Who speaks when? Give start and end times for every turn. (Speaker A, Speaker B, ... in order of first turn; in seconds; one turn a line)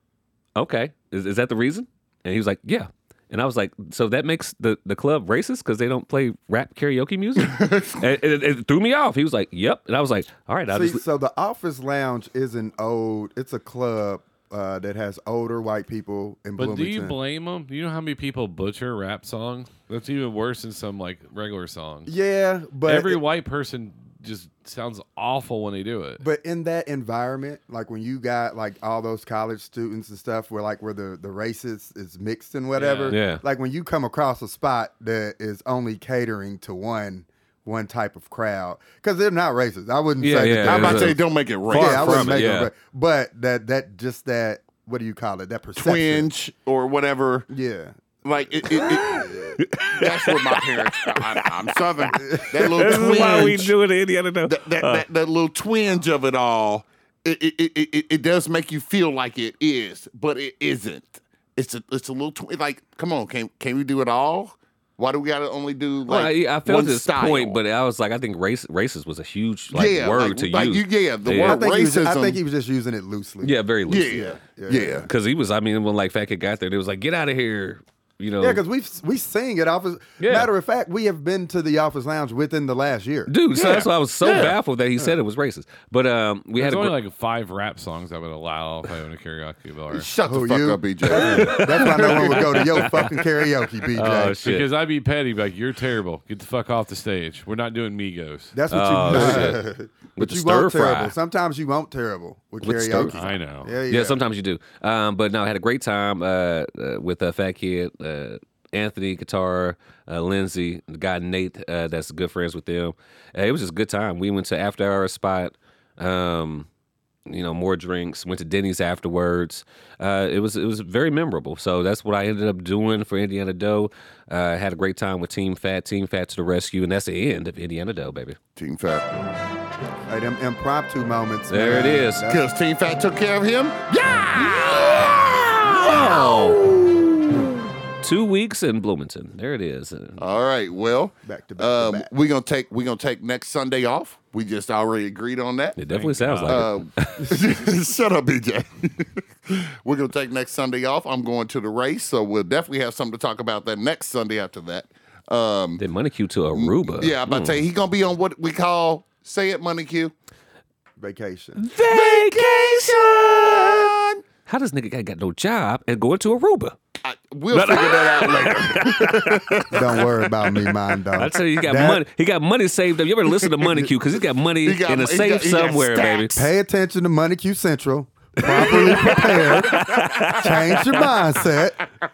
Speaker A: 0.6-11.0
Speaker B: 7.4-8.0
Speaker C: 10.7-17.2
Speaker D: 16.6-22.1
Speaker C: 22.1-23.2
Speaker D: 22.9-26.2
Speaker C: 26.2-41.2
Speaker D: 32.7-33.2
Speaker A: 33.1-33.4
Speaker A: 40.2-42.7
Speaker B: 40.6-42.5
Speaker C: 41.7-46.3
Speaker B: 45.8-47.5
Speaker C: 47.5-48.0
Speaker B: 48.2-49.3
Speaker C: 48.6-49.6
Speaker A: 48.9-51.5
Speaker B: 49.9-53.7
Speaker A: 52.2-55.0
Speaker C: 52.3-52.5
Speaker B: 54.5-67.6
Speaker A: 66.1-71.6
Speaker B: 69.7-72.4
Speaker C: 71.4-75.1
Speaker A: 73.4-74.3
Speaker B: 73.9-75.1
Speaker A: 75.1-78.6
Speaker C: 78.4-83.3
Speaker A: 80.2-80.5
Speaker A: 83.3-87.0
Speaker B: 83.5-84.6
Speaker D: 86.6-90.1
Speaker B: 89.9-93.1
Speaker C: 90.3-94.4
Speaker A: 91.2-93.0
Speaker A: 94.0-94.7
Speaker D: 94.4-98.5
Speaker C: 98.5-104.2
Speaker A: 98.7-99.6
Speaker A: 100.2-101.1
Speaker A: 102.6-103.2
Speaker D: 103.1-103.7
Speaker A: 103.9-116.7
Speaker A: 117.3-128.4
Speaker B: 128.6-129.1
Speaker C: 130.1-132.4
Speaker A: 131.5-132.3
Speaker B: 132.3-137.4
Speaker A: 134.3-135.1
Speaker A: 135.6-136.8
Speaker A: 138.0-140.2
Speaker B: 140.2-145.8
Speaker C: 141.2-142.1
Speaker A: 145.8-147.4
Speaker D: 145.9-146.7
Speaker B: 146.5-155.8
Speaker A: 155.8-157.6
Speaker B: 156.5-160.1
Speaker C: 161.0-161.6
Speaker A: 161.6-163.9
Speaker B: 161.8-164.2
Speaker A: 164.5-166.8
Speaker B: 167.0-170.1
Speaker A: 167.5-169.7
Speaker C: 169.7-172.0
Speaker A: 171.1-176.5
Speaker B: 174.6-176.4
Speaker C: 176.3-181.8
Speaker B: 178.4-180.6
Speaker A: 178.4-181.0